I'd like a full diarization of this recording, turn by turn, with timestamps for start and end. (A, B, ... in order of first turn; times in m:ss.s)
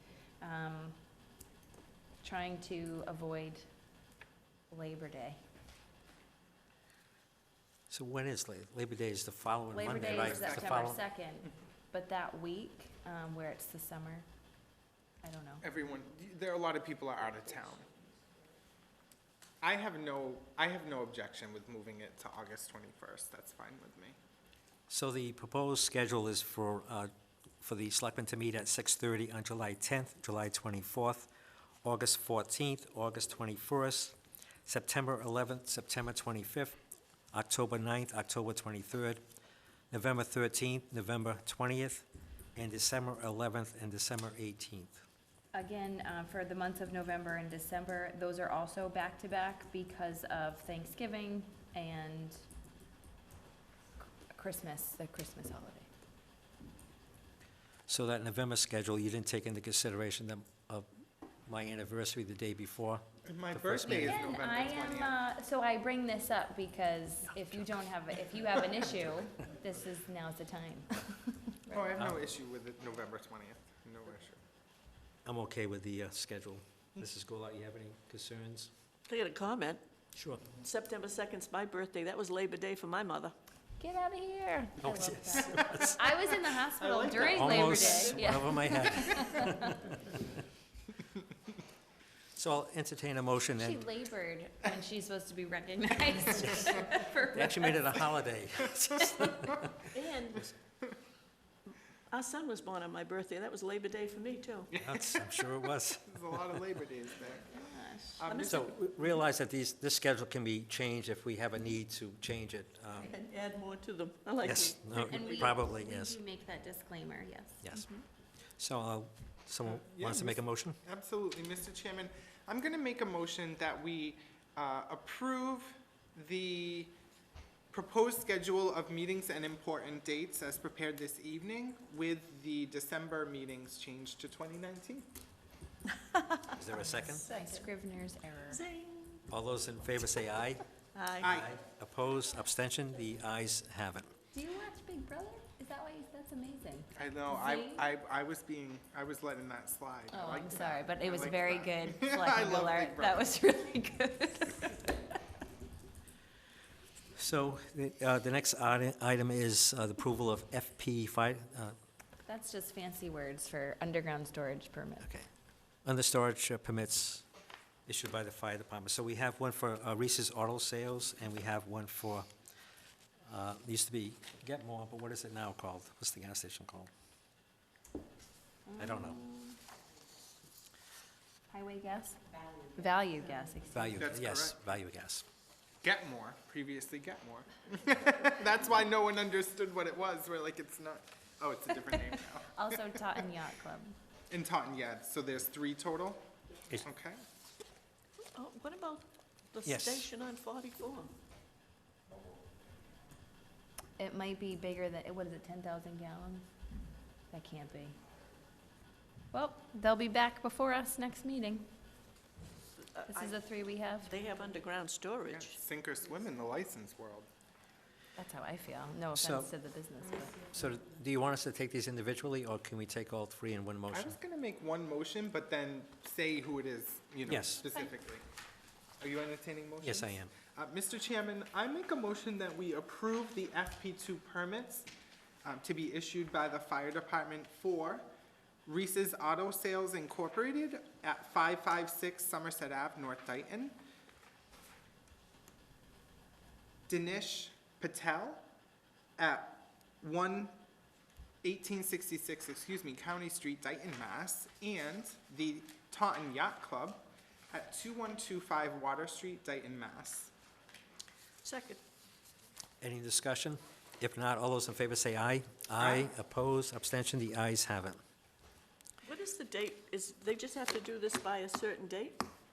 0:00.4-0:01.1 A
0:02.2-0:03.7 A
0:04.7-0:05.4 A
0:07.9-0:11.0 B
0:09.7-0:14.2 A
0:09.9-0:10.8 C
0:15.2-0:15.6 A
0:15.6-0:17.9 C
0:19.6-0:24.2 C
0:24.9-0:27.1 B
0:27.6-0:31.3 B
0:31.8-0:36.8 B
0:37.3-0:39.2 B
0:39.9-0:45.0 B
0:45.5-0:52.4 A
0:54.3-0:55.9 A
0:57.9-1:00.9 B
1:01.4-1:04.3 B
1:03.3-1:05.2 C
1:03.8-1:11.9 A
1:11.7-1:14.4 C
1:12.0-1:12.2 B
1:15.2-1:18.7 B
1:19.1-1:19.8 D
1:20.1-1:20.4 B
1:20.6-1:23.3 D
1:23.8-1:30.0 A
1:24.8-1:26.5 B
1:26.8-1:27.4 C
1:27.2-1:29.9 B
1:27.4-1:28.7 D
1:32.3-1:33.8 B
1:33.6-1:37.8 A
1:37.3-1:39.9 B
1:39.9-1:40.5 D
1:42.1-1:44.7 D
1:44.7-1:45.4 C
1:44.8-1:46.7 B
1:46.0-1:47.6 C
1:47.5-1:48.3 A
1:48.2-1:48.7 C
1:48.3-1:48.7 D
1:48.5-1:53.1 B
1:53.0-1:55.5 D
1:54.4-1:56.2 B
1:55.0-1:58.0 A
1:57.6-1:57.9 B
1:58.6-2:00.8 B
1:59.6-2:06.9 C
2:07.7-2:15.0 C
2:16.5-2:17.3 B
2:16.8-2:18.6 A
2:17.1-2:17.7 D
2:18.5-2:19.3 D
2:19.3-2:20.6 B
2:20.9-2:21.3 D
2:21.2-2:21.5 C
2:21.2-2:24.1 B
2:24.3-2:27.9 A
2:27.0-2:33.4 C
2:30.1-2:34.8 A
2:37.2-2:41.7 B
2:42.2-2:45.1 A
2:45.0-2:45.3 B
2:45.8-2:47.2 B
2:47.8-2:52.2 B
2:53.3-2:56.9 B
2:58.7-2:59.3 A
2:58.8-2:59.2 B
3:01.5-3:02.2 A
3:02.7-3:04.0 A
3:03.7-3:05.2 B
3:03.9-3:04.6 C
3:05.8-3:13.1 C
3:12.5-3:14.0 A
3:14.3-3:17.2 C
3:18.3-3:21.1 D
3:19.6-3:20.1 B
3:24.0-3:26.5 A
3:27.3-3:28.0 A
3:29.3-3:31.7 A
3:32.9-3:33.4 D
3:33.1-3:34.1 A
3:34.0-3:35.6 D
3:35.2-3:37.3 C
3:38.2-3:40.5 A
3:39.2-3:39.5 B
3:40.5-3:44.1 B
3:43.9-3:48.2 C
3:47.2-3:47.6 B
3:49.0-3:54.9 C
3:49.8-3:50.3 B
3:55.4-3:58.0 C
3:58.6-4:03.8 C
4:06.9-4:08.4 C
4:09.2-4:10.5 C
4:11.4-4:20.3 C
4:21.4-4:21.8 D
4:22.8-4:28.0 B
4:25.8-4:26.1 C
4:29.0-4:32.2 D